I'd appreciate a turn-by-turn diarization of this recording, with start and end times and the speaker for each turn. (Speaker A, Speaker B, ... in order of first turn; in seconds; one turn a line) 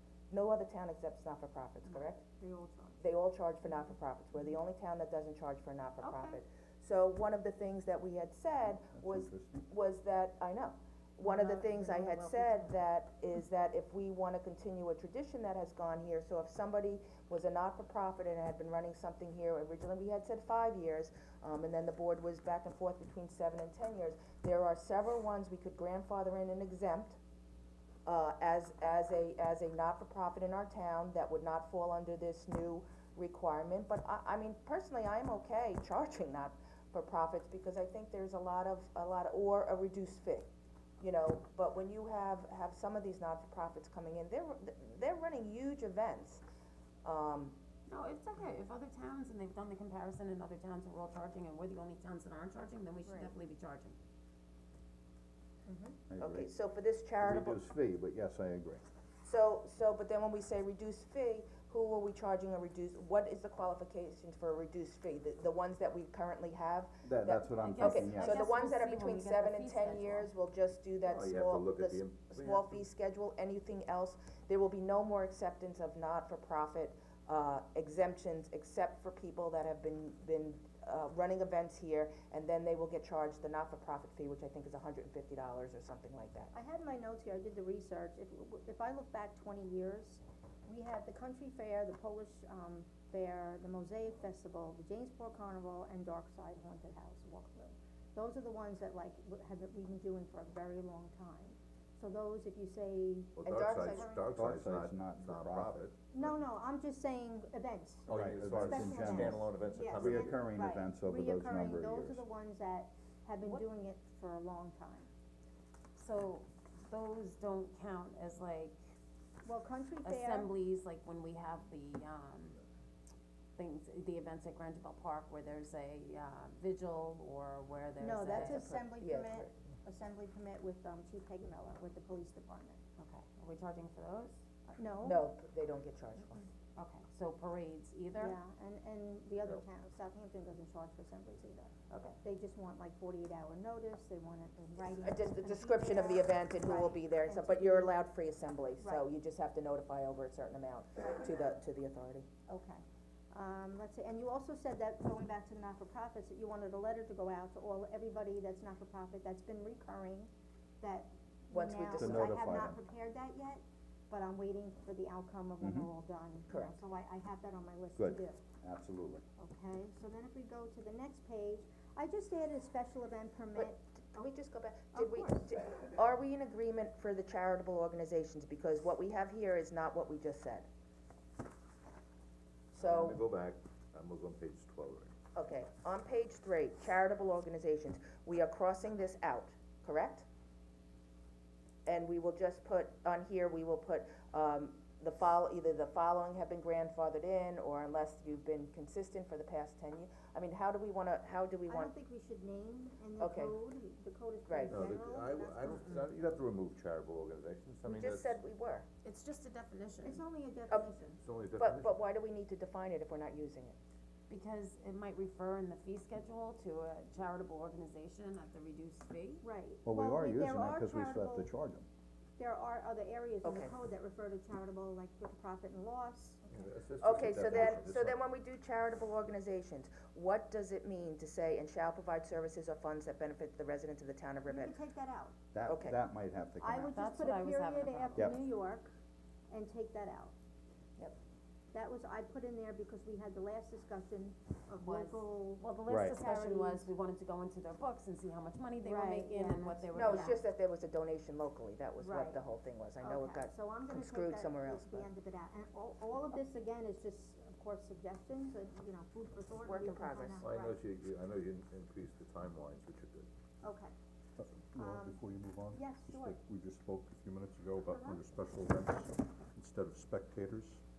Speaker A: 0.3-2.2
Speaker B: 1.9-3.0
Speaker A: 3.0-27.2
Speaker B: 6.0-6.4
Speaker C: 8.9-9.6
Speaker D: 11.2-12.7
Speaker A: 28.1-40.5
Speaker A: 41.0-46.4
Speaker A: 47.0-47.6
Speaker D: 47.9-54.0
Speaker B: 53.0-53.3
Speaker B: 55.7-56.0
Speaker C: 56.1-56.5
Speaker A: 56.2-57.6
Speaker C: 57.2-58.8
Speaker A: 59.2-86.5
Speaker C: 67.0-68.5
Speaker D: 67.6-70.3
Speaker E: 71.0-72.8
Speaker B: 86.5-104.2
Speaker E: 103.3-106.3
Speaker A: 103.4-104.2
Speaker C: 104.3-105.9
Speaker B: 106.1-115.1
Speaker E: 108.1-110.5
Speaker C: 108.1-112.2
Speaker D: 116.0-118.8
Speaker B: 119.4-120.5
Speaker D: 120.0-122.6
Speaker D: 123.5-128.8
Speaker B: 128.0-132.8
Speaker A: 128.3-129.5
Speaker D: 133.0-134.3
Speaker B: 134.7-135.3
Speaker A: 135.0-136.5
Speaker D: 136.8-138.4
Speaker B: 138.2-147.9
Speaker D: 141.9-142.2
Speaker A: 144.8-152.3
Speaker B: 148.8-149.1
Speaker B: 152.5-160.3
Speaker B: 160.8-168.4
Speaker A: 161.5-162.3
Speaker C: 161.9-162.8
Speaker C: 165.6-165.9
Speaker A: 166.5-166.8
Speaker C: 167.9-169.2
Speaker B: 169.4-173.8
Speaker A: 173.5-180.7
Speaker B: 174.9-175.5
Speaker A: 182.7-183.2
Speaker E: 182.8-185.1
Speaker A: 185.3-190.3
Speaker A: 191.8-201.9
Speaker B: 201.7-206.0
Speaker A: 203.2-203.6
Speaker A: 204.5-204.8
Speaker E: 204.7-208.4
Speaker A: 207.8-208.8
Speaker D: 209.0-210.2
Speaker B: 210.0-211.2
Speaker E: 211.2-211.9
Speaker A: 211.6-213.8
Speaker D: 214.3-219.4
Speaker B: 219.4-221.5
Speaker C: 219.8-221.8
Speaker B: 222.4-226.4
Speaker A: 223.4-223.7
Speaker E: 226.5-228.2
Speaker A: 227.0-234.8
Speaker B: 234.4-235.4
Speaker C: 235.5-237.2
Speaker A: 235.7-236.0
Speaker B: 236.6-238.9
Speaker D: 236.9-238.4
Speaker B: 239.5-240.3
Speaker B: 241.7-246.9
Speaker D: 244.8-250.4
Speaker C: 245.9-246.2
Speaker B: 248.8-250.4
Speaker A: 249.9-255.1
Speaker B: 252.0-252.4
Speaker B: 253.0-260.8
Speaker A: 259.6-260.4
Speaker E: 260.4-263.3
Speaker B: 263.6-263.9
Speaker F: 264.4-270.8
Speaker B: 264.8-266.4
Speaker B: 267.9-268.2